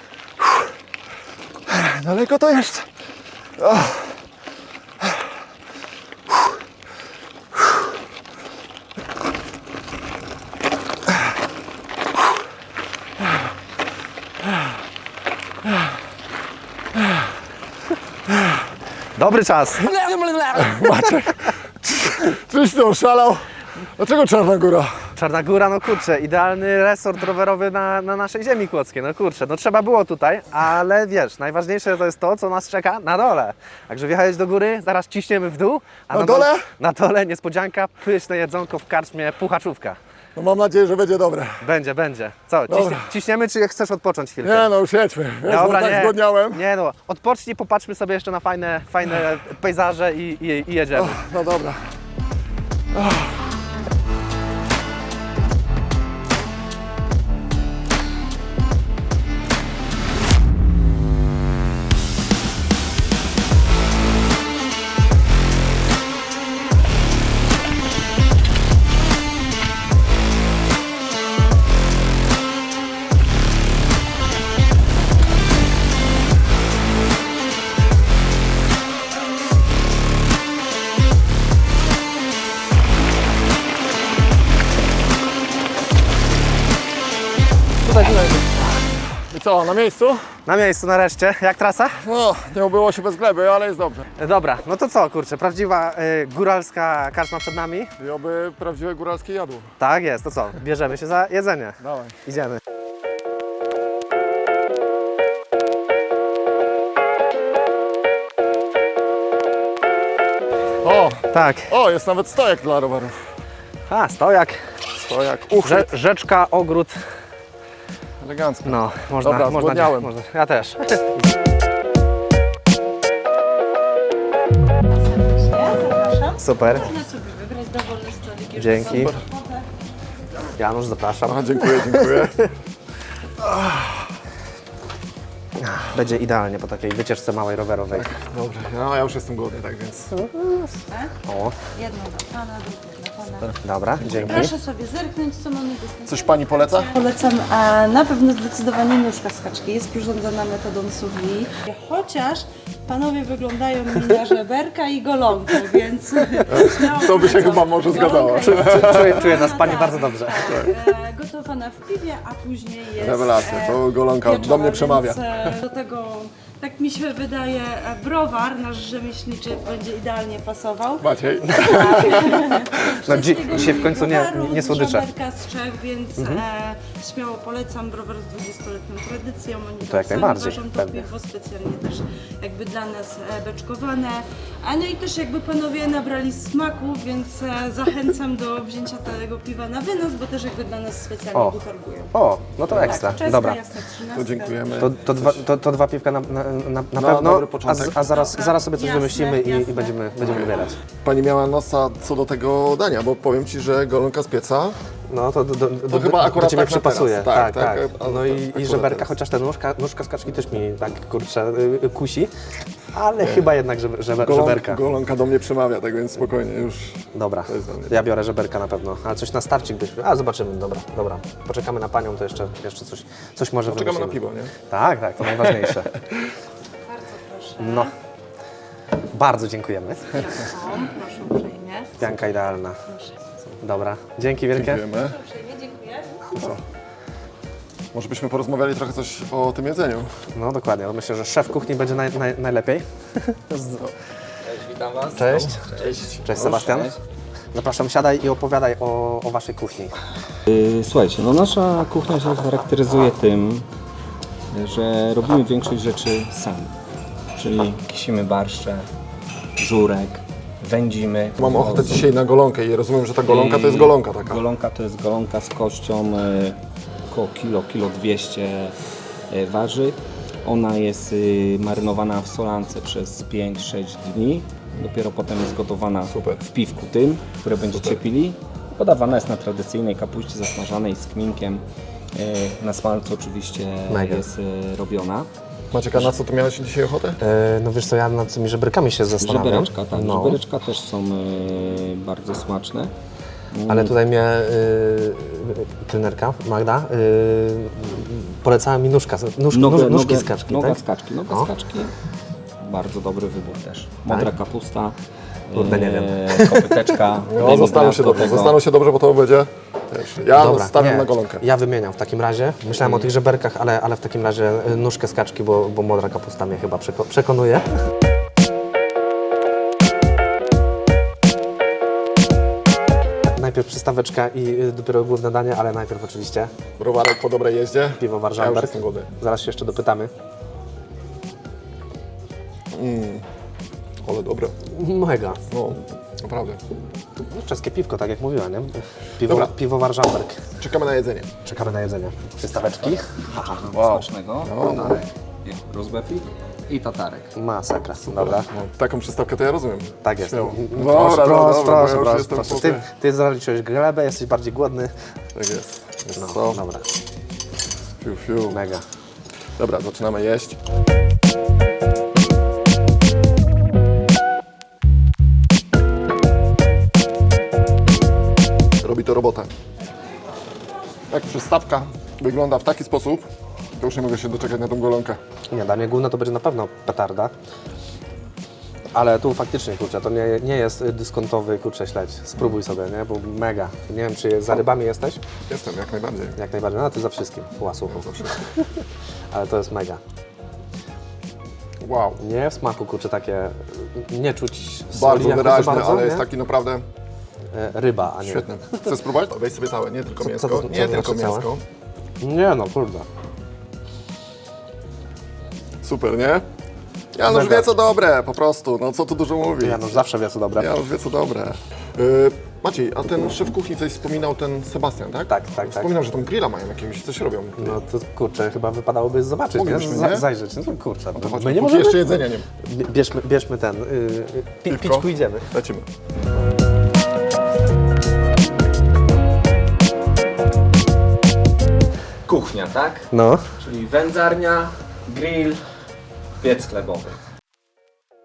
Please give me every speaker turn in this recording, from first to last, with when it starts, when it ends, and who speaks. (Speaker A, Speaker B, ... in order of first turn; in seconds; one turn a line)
Speaker A: 0.4-0.7
Speaker A: 1.7-2.9
Speaker A: 3.6-4.2
Speaker B: 19.2-21.1
Speaker A: 20.0-25.0
Speaker B: 25.2-40.0
Speaker A: 36.1-36.7
Speaker A: 40.4-41.7
Speaker B: 41.6-44.7
Speaker A: 42.7-43.1
Speaker A: 44.4-46.6
Speaker B: 45.5-51.2
Speaker A: 51.0-52.0
Speaker A: 52.9-53.4
Speaker A: 87.8-90.3
Speaker B: 90.5-92.0
Speaker A: 92.0-94.0
Speaker B: 94.2-97.9
Speaker A: 98.0-99.7
Speaker B: 99.8-102.6
Speaker A: 101.8-102.2
Speaker A: 110.8-113.2
Speaker B: 111.3-111.7
Speaker B: 113.9-114.8
Speaker A: 115.0-115.9
Speaker B: 115.6-117.0
Speaker A: 118.2-120.1
Speaker B: 118.7-121.2
Speaker C: 124.9-129.7
Speaker B: 126.4-127.0
Speaker B: 128.6-129.2
Speaker A: 128.9-129.2
Speaker B: 130.6-132.5
Speaker A: 131.2-132.5
Speaker A: 133.4-134.1
Speaker B: 135.6-138.1
Speaker A: 137.9-140.2
Speaker B: 140.1-141.6
Speaker C: 140.9-141.2
Speaker C: 141.7-143.5
Speaker B: 143.6-144.5
Speaker A: 144.0-144.4
Speaker C: 144.1-192.1
Speaker A: 146.1-146.9
Speaker A: 156.5-159.3
Speaker B: 158.4-160.7
Speaker A: 162.9-165.6
Speaker A: 171.0-172.6
Speaker B: 172.8-175.1
Speaker B: 176.2-176.4
Speaker B: 179.9-181.1
Speaker B: 191.3-191.6
Speaker B: 192.1-193.6
Speaker C: 192.7-194.6
Speaker A: 192.8-193.1
Speaker A: 194.1-195.4
Speaker B: 194.8-200.8
Speaker A: 196.9-198.0
Speaker C: 198.1-200.0
Speaker A: 200.2-204.8
Speaker B: 205.1-212.3
Speaker A: 205.9-209.1
Speaker B: 212.9-214.8
Speaker A: 213.2-213.5
Speaker A: 214.2-218.1
Speaker B: 217.1-225.9
Speaker A: 223.7-224.5
Speaker A: 225.4-226.3
Speaker C: 226.8-227.9
Speaker B: 227.6-227.9
Speaker B: 229.1-230.4
Speaker C: 230.1-232.2
Speaker B: 232.0-232.8
Speaker C: 232.9-233.2
Speaker B: 233.5-234.8
Speaker A: 234.5-235.2
Speaker C: 235.1-236.5
Speaker B: 236.3-236.6
Speaker A: 237.9-240.2
Speaker B: 240.3-243.9
Speaker D: 244.4-247.0
Speaker B: 245.1-247.0
Speaker A: 245.4-246.7
Speaker B: 247.5-250.0
Speaker D: 250.5-253.7
Speaker D: 254.5-256.7
Speaker D: 257.4-258.9
Speaker D: 259.6-262.1
Speaker A: 261.4-264.4
Speaker D: 263.2-266.6
Speaker D: 267.1-268.8
Speaker D: 269.3-281.6
Speaker A: 276.1-276.4
Speaker A: 277.7-278.0
Speaker D: 282.1-285.3
Speaker B: 283.9-284.3
Speaker A: 285.7-287.2
Speaker B: 287.2-290.4
Speaker D: 289.2-292.9
Speaker D: 293.5-293.9
Speaker B: 293.7-301.5
Speaker D: 299.5-301.9
Speaker D: 302.6-305.0
Speaker D: 305.5-308.6
Speaker B: 305.5-306.8
Speaker A: 307.3-311.4
Speaker B: 310.3-317.8
Speaker D: 312.8-313.1
Speaker B: 323.3-326.5
Speaker A: 326.8-329.1
Speaker B: 328.0-330.1
Speaker A: 332.7-333.3
Speaker A: 334.0-334.6
Speaker B: 334.7-335.4
Speaker A: 335.5-336.6
Speaker B: 337.2-340.4
Speaker A: 339.2-339.5
Speaker A: 340.6-341.3
Speaker B: 341.4-343.6
Speaker D: 343.3-347.3
Speaker A: 343.7-345.0
Speaker B: 347.4-348.5
Speaker A: 348.0-352.9
Speaker B: 350.0-354.9
Speaker A: 355.4-356.6
Speaker B: 356.2-356.9
Speaker A: 358.0-358.6
Speaker B: 358.5-358.9
Speaker A: 359.6-360.6
Speaker A: 368.8-369.5
Speaker A: 371.1-375.2
Speaker B: 375.5-377.3
Speaker B: 378.9-385.2
Speaker A: 385.5-386.4
Speaker B: 386.4-388.8
Speaker A: 387.9-388.4
Speaker B: 389.3-390.0
Speaker A: 391.8-392.2
Speaker B: 392.2-396.3
Speaker A: 394.9-396.9
Speaker B: 397.5-398.9
Speaker A: 398.2-401.6
Speaker B: 400.2-401.5
Speaker B: 402.2-403.1
Speaker A: 405.8-406.4
Speaker A: 407.1-410.1
Speaker B: 407.3-407.7
Speaker B: 409.6-410.7
Speaker A: 410.6-417.8
Speaker B: 415.3-415.9
Speaker B: 417.6-422.1
Speaker A: 419.5-420.3
Speaker A: 421.1-422.5
Speaker B: 422.6-425.5
Speaker A: 424.7-425.9
Speaker D: 432.3-435.6
Speaker B: 433.1-433.5
Speaker D: 436.4-437.2